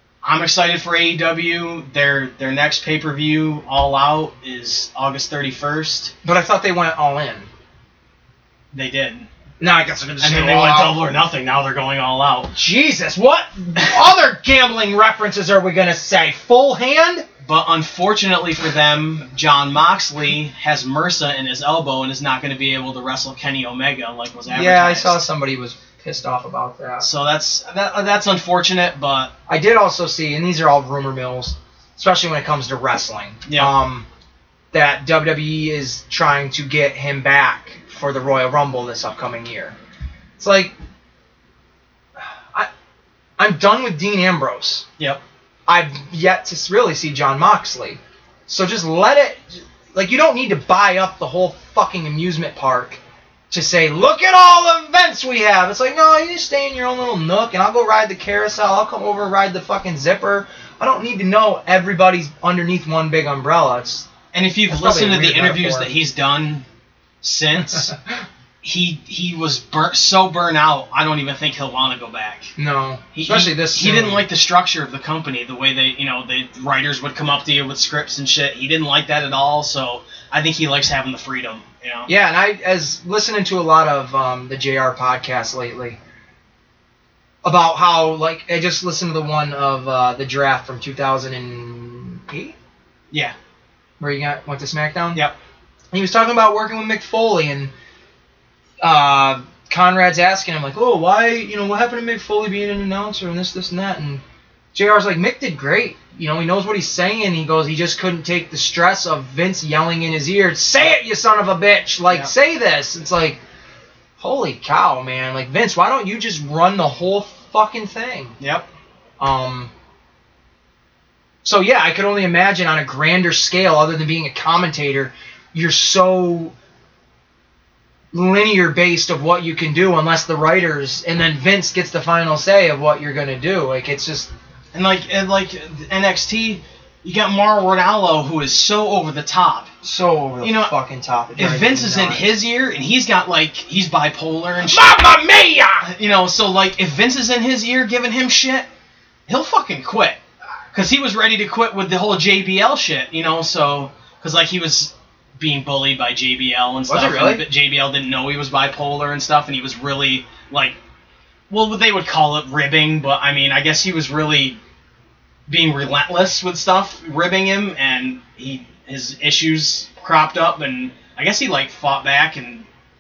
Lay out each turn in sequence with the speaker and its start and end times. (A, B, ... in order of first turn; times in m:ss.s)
0:00.2-0:06.1 A
0:06.2-0:07.5 B
0:08.7-0:09.3 A
0:09.6-0:11.0 B
0:10.2-0:12.6 A
0:12.6-0:17.3 B
0:17.4-0:25.2 A
0:24.5-0:27.1 B
0:27.0-0:29.3 A
0:29.5-0:34.1 B
0:33.5-0:33.7 A
0:34.7-0:39.8 B
0:40.4-0:40.8 B
0:42.2-0:42.7 B
0:43.4-0:44.8 B
0:45.7-1:04.1 B
1:04.3-1:06.6 A
1:04.7-1:05.9 B
1:07.2-1:07.9 A
1:07.7-1:08.0 B
1:08.6-1:12.5 A
1:12.6-1:14.2 B
1:13.1-1:22.1 A
1:22.1-1:26.0 B
1:27.4-1:32.6 B
1:34.0-1:35.2 B
1:35.9-1:37.7 B
1:38.8-1:44.2 B
1:44.7-1:53.4 B
1:54.2-1:58.4 B
1:58.4-1:58.7 A
1:59.2-1:59.7 B
2:01.4-2:06.5 B
2:08.1-2:14.3 B
2:14.7-2:19.7 A
2:19.8-2:22.4 B
2:20.4-2:20.7 A
2:21.4-2:25.0 A
2:24.7-2:25.9 B
2:25.8-2:28.7 A
2:29.3-2:30.2 A
2:30.7-2:40.8 A
2:36.9-2:37.4 B
2:41.5-2:44.6 A
2:45.5-2:52.7 A